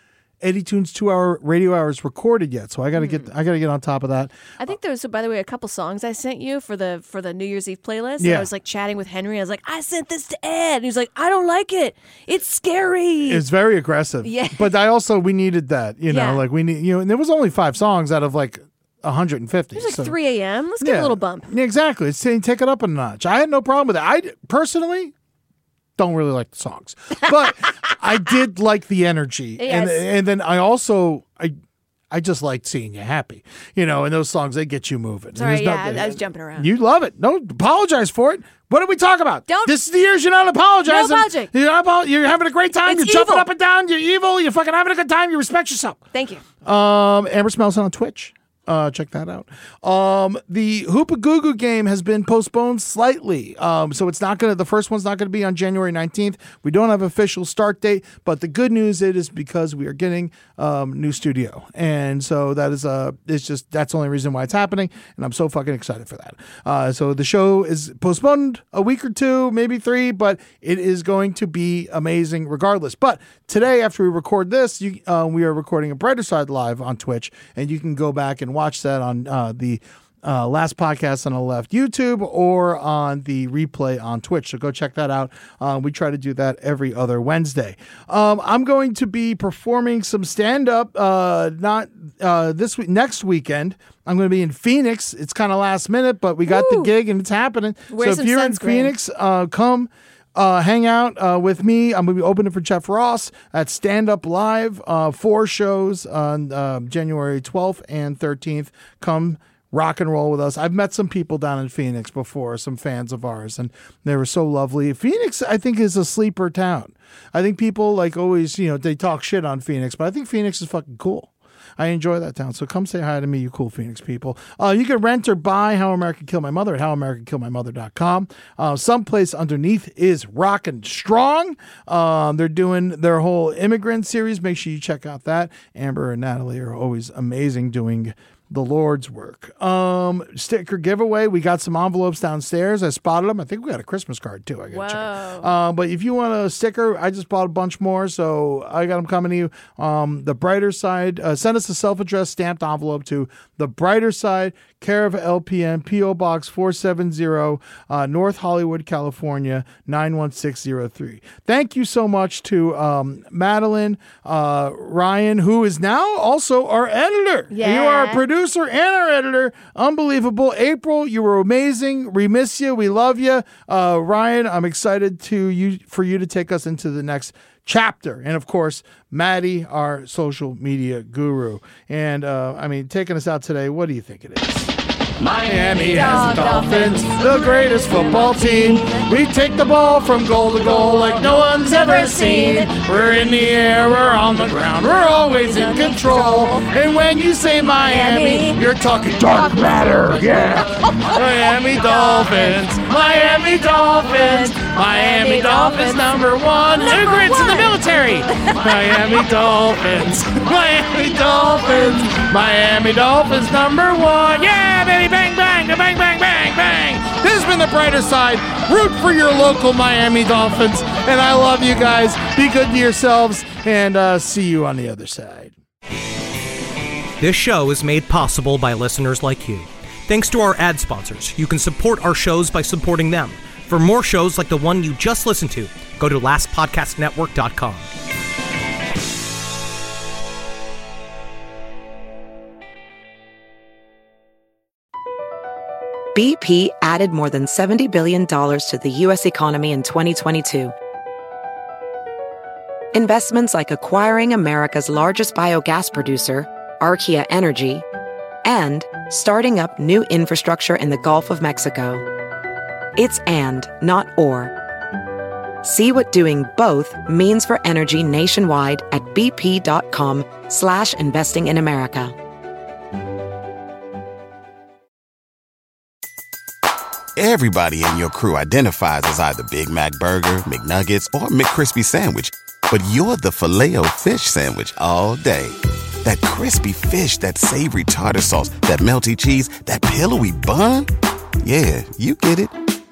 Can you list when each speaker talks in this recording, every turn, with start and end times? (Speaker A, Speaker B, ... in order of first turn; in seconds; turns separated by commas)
Speaker A: 0.4-4.4, Speaker B: 3.0-3.3, Speaker B: 4.6-13.4, Speaker A: 8.2-8.5, Speaker A: 13.2-20.1, Speaker B: 14.2-14.7, Speaker B: 16.1-16.4, Speaker B: 19.8-21.5, Speaker A: 20.8-25.1, Speaker A: 26.0-31.5, Speaker B: 29.6-30.1, Speaker A: 32.1-46.0, Speaker B: 35.3-36.7, Speaker B: 39.5-39.7, Speaker B: 40.8-41.5, Speaker B: 42.9-43.5, Speaker B: 46.1-46.4, Speaker A: 46.6-225.6, Speaker B: 96.5-96.9, Speaker B: 97.9-98.9, Speaker B: 144.7-145.5, Speaker B: 167.5-168.2, Speaker B: 185.7-189.1, Speaker B: 191.7-192.7, Speaker B: 195.5-196.6, Speaker B: 197.9-198.6, Speaker B: 200.8-201.2, Speaker B: 201.8-202.6, Speaker B: 204.5-206.2, Speaker B: 206.8-207.7, Speaker C: 227.2-237.9, Speaker D: 246.1-250.7, Speaker D: 252.9-257.8, Speaker D: 258.4-262.0, Speaker D: 262.9-264.5, Speaker D: 265.6-272.1, Speaker E: 277.1-290.9, Speaker E: 291.4-292.5